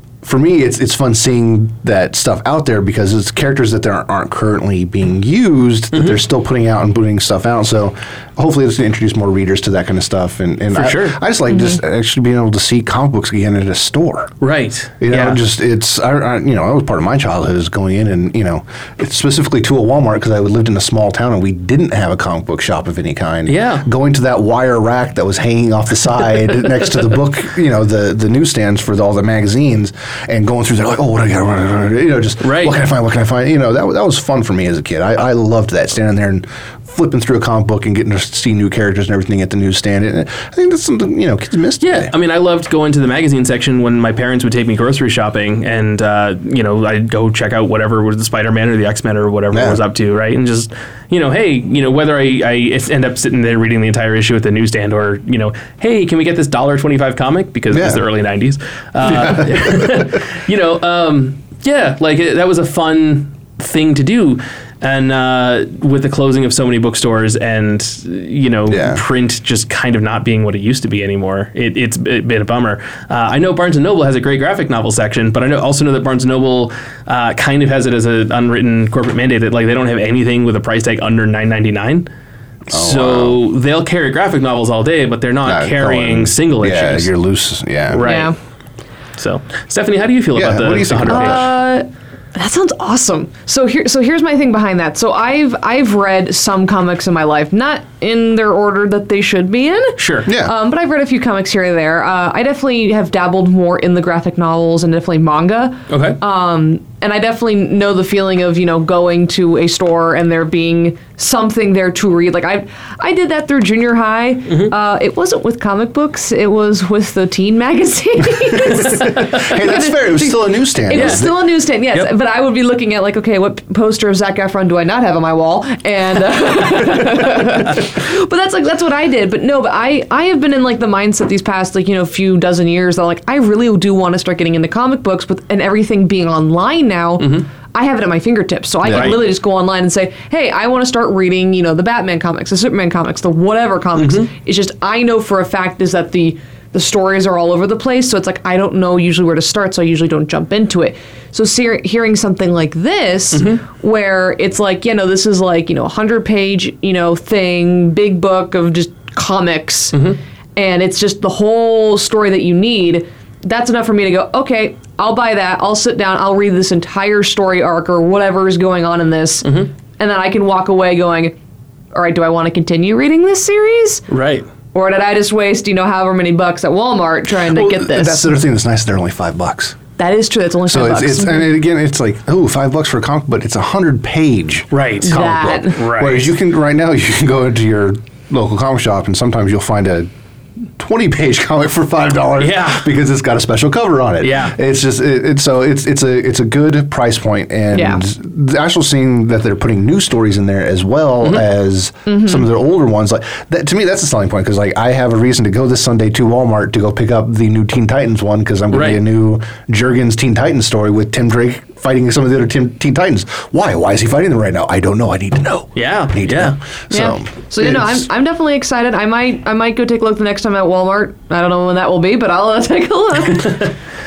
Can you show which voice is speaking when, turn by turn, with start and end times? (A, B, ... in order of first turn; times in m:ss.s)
0:00.2-0:14.3 A
0:05.9-0:06.2 B
0:10.7-0:11.2 B
0:14.4-0:15.4 B
0:15.0-0:42.1 A
0:23.5-0:23.8 B
0:32.4-0:32.8 B
0:41.8-1:22.1 B
0:49.5-0:49.8 A
0:57.7-0:58.0 A
0:59.0-1:00.0 A
1:08.7-1:09.0 A
1:22.7-1:27.1 B
1:22.7-1:23.4 A
1:25.4-1:28.0 A
1:27.9-1:28.3 B
1:28.0-1:28.3 C
1:29.2-1:31.5 B
1:30.3-1:31.5 A
1:31.0-2:40.0 C
1:40.0-1:40.3 B
1:40.2-1:40.5 A
1:45.9-1:46.2 B
1:58.5-2:01.4 A
1:59.0-1:59.5 B
2:00.9-2:01.3 B
2:17.2-2:17.4 B
2:18.8-2:19.2 A
2:18.9-2:19.2 B
2:24.0-2:24.3 B
2:33.3-2:33.6 B
2:39.9-2:40.2 B
2:40.6-2:51.4 C
2:49.4-2:49.7 B
2:51.9-2:54.0 C
2:54.1-2:54.4 B
2:54.7-2:58.3 C
2:57.5-2:59.8 A
3:00.0-3:01.5 C
3:00.7-3:10.1 A
3:04.7-3:06.3 B
3:05.1-3:05.8 C
3:10.8-3:38.0 A
3:12.4-3:12.8 B
3:14.2-3:14.5 B
3:17.7-3:18.0 C
3:22.0-3:22.4 C
3:28.7-3:29.0 B
3:35.8-3:36.6 B
3:36.9-3:43.6 C
3:43.3-3:43.7 B